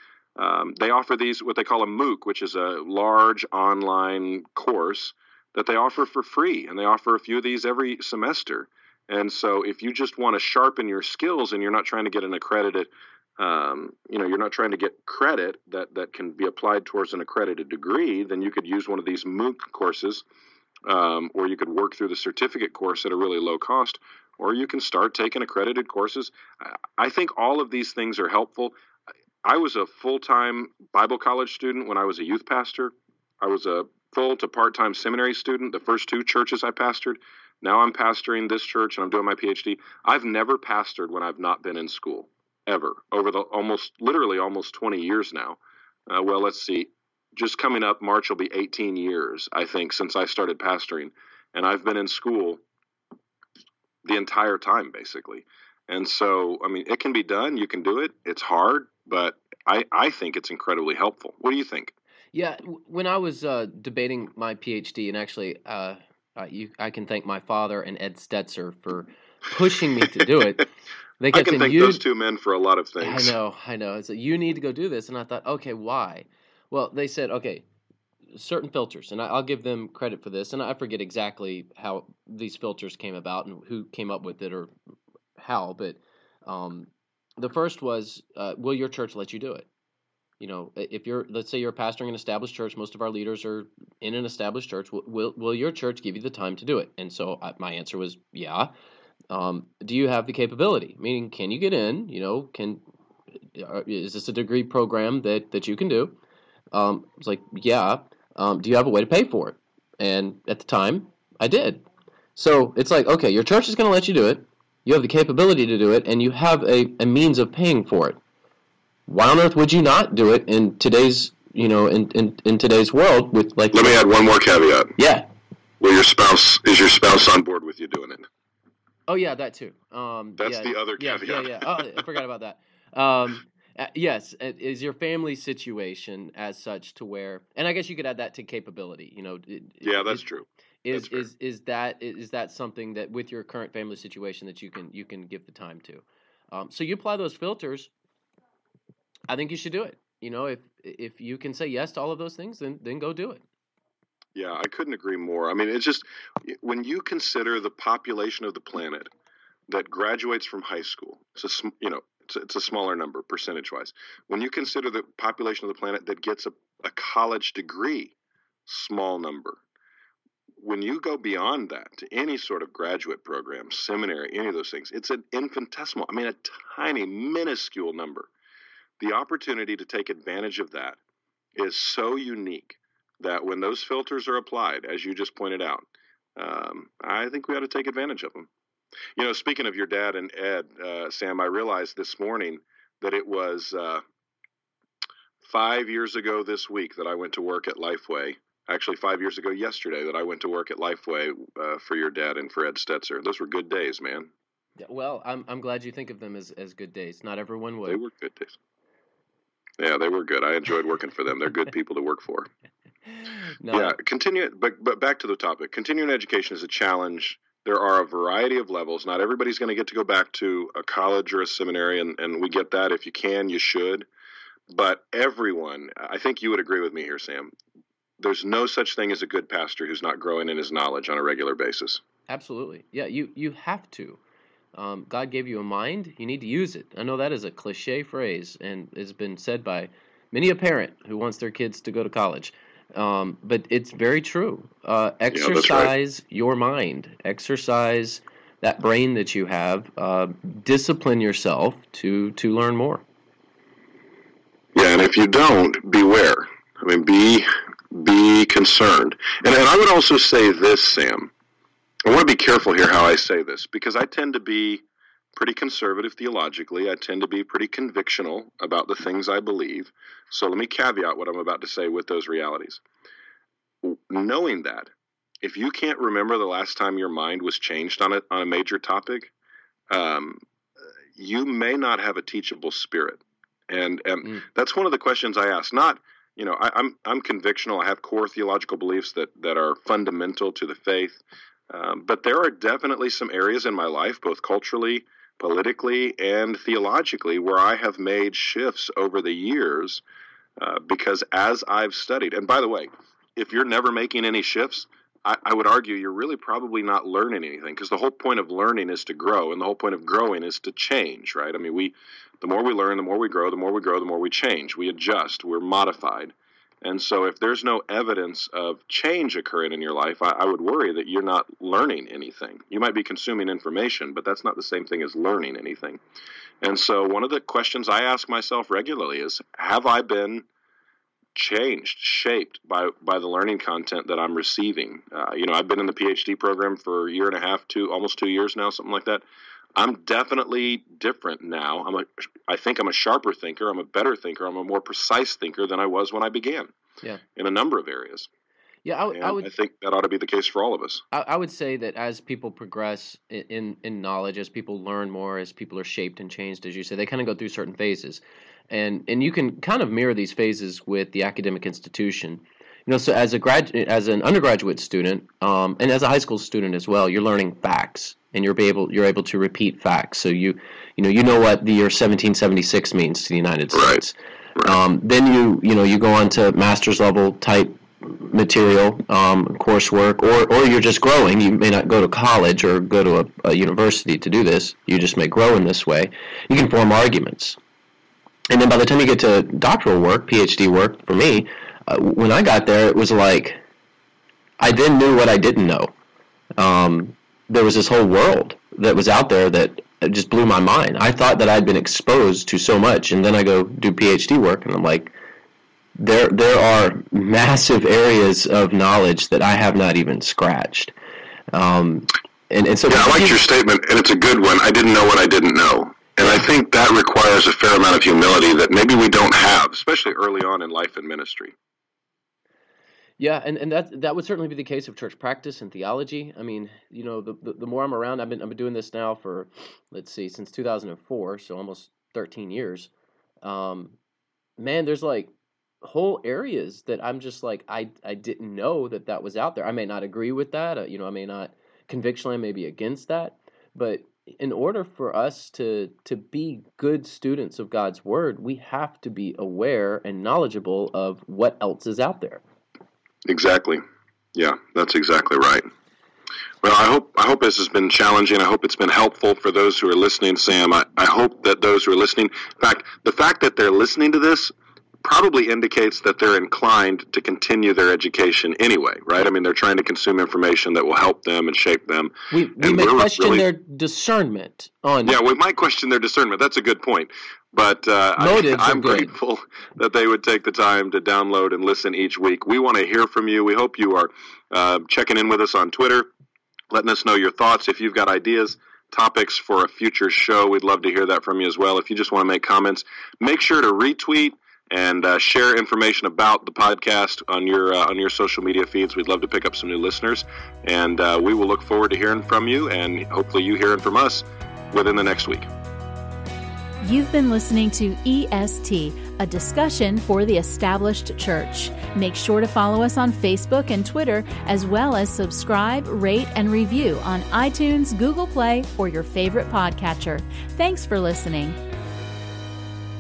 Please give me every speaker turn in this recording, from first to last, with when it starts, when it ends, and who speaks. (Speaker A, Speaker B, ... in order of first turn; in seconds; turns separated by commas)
Speaker A: 0.4-20.2, Speaker A: 20.9-28.8, Speaker A: 29.4-52.6, Speaker A: 54.0-61.9, Speaker B: 62.3-70.7, Speaker B: 71.2-72.0, Speaker A: 71.3-73.4, Speaker B: 73.0-77.7, Speaker B: 78.3-84.7, Speaker B: 85.4-89.7, Speaker B: 90.4-98.7, Speaker B: 99.3-102.8, Speaker B: 103.5-106.2, Speaker B: 106.7-111.8, Speaker B: 112.4-118.2, Speaker B: 119.1-124.0, Speaker A: 123.7-125.0, Speaker B: 125.0-125.3, Speaker A: 125.8-128.2, Speaker B: 129.1-140.2, Speaker A: 130.4-132.0, Speaker A: 139.8-141.3, Speaker B: 140.8-147.9, Speaker B: 149.3-153.4, Speaker A: 154.3-159.1, Speaker A: 159.7-168.1, Speaker A: 168.7-169.6, Speaker A: 170.6-178.3, Speaker A: 179.0-181.0, Speaker A: 181.6-188.5, Speaker A: 189.2-194.0, Speaker A: 195.4-204.3, Speaker B: 204.8-208.0, Speaker A: 207.9-208.6, Speaker A: 209.8-212.5, Speaker B: 213.1-214.0, Speaker A: 213.7-224.1, Speaker A: 224.7-227.5, Speaker A: 228.2-232.0, Speaker B: 232.3-234.2, Speaker B: 234.8-253.0, Speaker A: 245.3-245.9, Speaker A: 254.8-261.3, Speaker A: 262.1-264.8, Speaker A: 265.4-272.8, Speaker A: 273.8-274.9, Speaker A: 275.4-279.3, Speaker A: 279.9-280.4, Speaker A: 281.2-300.0, Speaker A: 300.6-326.0, Speaker A: 326.6-330.5, Speaker A: 331.4-339.2, Speaker A: 339.8-346.7, Speaker A: 347.4-348.3, Speaker B: 348.9-349.5, Speaker A: 349.1-351.0, Speaker B: 351.1-387.6, Speaker A: 373.7-374.0, Speaker B: 388.5-393.6, Speaker B: 394.6-395.9, Speaker B: 396.6-405.1, Speaker B: 406.0-410.9, Speaker B: 411.5-413.4, Speaker A: 412.9-421.5, Speaker B: 423.2-432.9, Speaker B: 433.4-434.0, Speaker B: 434.6-435.3, Speaker B: 435.8-452.4, Speaker A: 453.3-453.8, Speaker A: 454.4-455.6, Speaker A: 456.6-473.5, Speaker B: 472.3-475.2, Speaker A: 475.1-486.1, Speaker B: 478.2-479.1, Speaker A: 486.7-505.5, Speaker C: 506.8-521.6